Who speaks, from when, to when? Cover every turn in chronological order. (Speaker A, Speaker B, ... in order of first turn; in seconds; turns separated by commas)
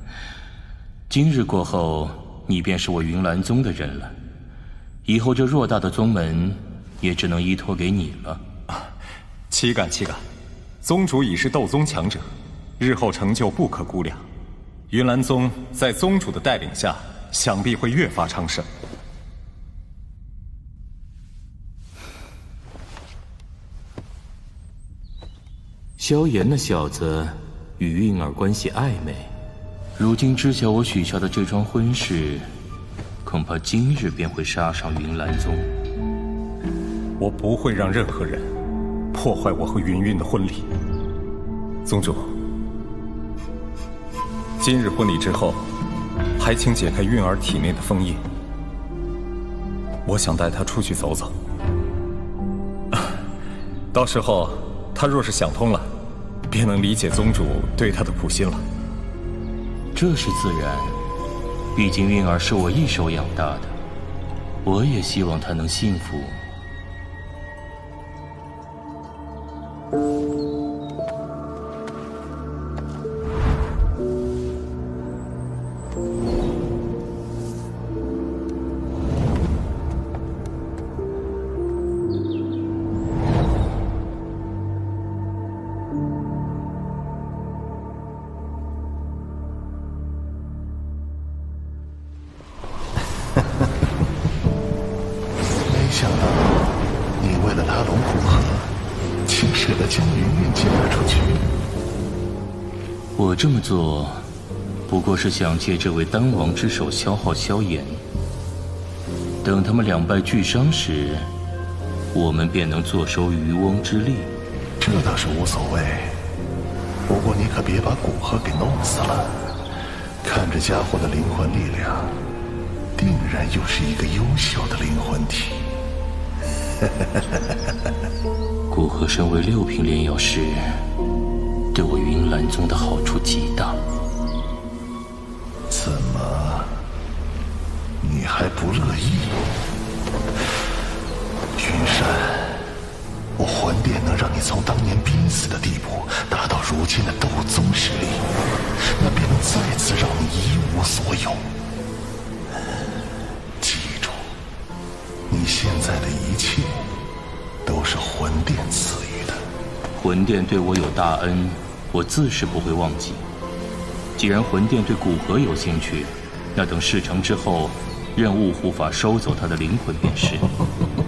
Speaker A: 1.1-4.2, Speaker A: 5.1-8.4, Speaker B: 9.5-10.2, Speaker B: 10.8-12.3, Speaker B: 12.8-14.2, Speaker B: 14.9-18.7, Speaker A: 26.0-29.3, Speaker A: 30.0-32.5, Speaker A: 33.2-35.7, Speaker B: 37.2-38.5, Speaker B: 39.1-40.7, Speaker B: 41.8-42.4, Speaker B: 44.6-45.6, Speaker B: 46.4-48.2, Speaker B: 50.0-51.3, Speaker B: 53.9-55.9, Speaker B: 56.5-58.6, Speaker A: 59.9-61.0, Speaker A: 61.8-63.8, Speaker A: 64.6-66.4, Speaker C: 95.6-98.7, Speaker C: 99.2-101.4, Speaker A: 103.2-104.2, Speaker A: 104.9-108.0, Speaker A: 109.4-111.3, Speaker A: 112.1-114.3, Speaker C: 114.8-116.2, Speaker C: 117.1-119.3, Speaker C: 120.2-122.2, Speaker C: 123.0-125.7, Speaker A: 128.7-130.8, Speaker A: 131.7-133.8, Speaker C: 135.7-136.7, Speaker C: 138.0-139.4, Speaker C: 141.6-142.6, Speaker C: 143.4-151.4, Speaker C: 153.6-154.2, Speaker C: 155.3-156.8, Speaker C: 157.6-159.4, Speaker A: 159.9-163.2, Speaker A: 164.2-170.5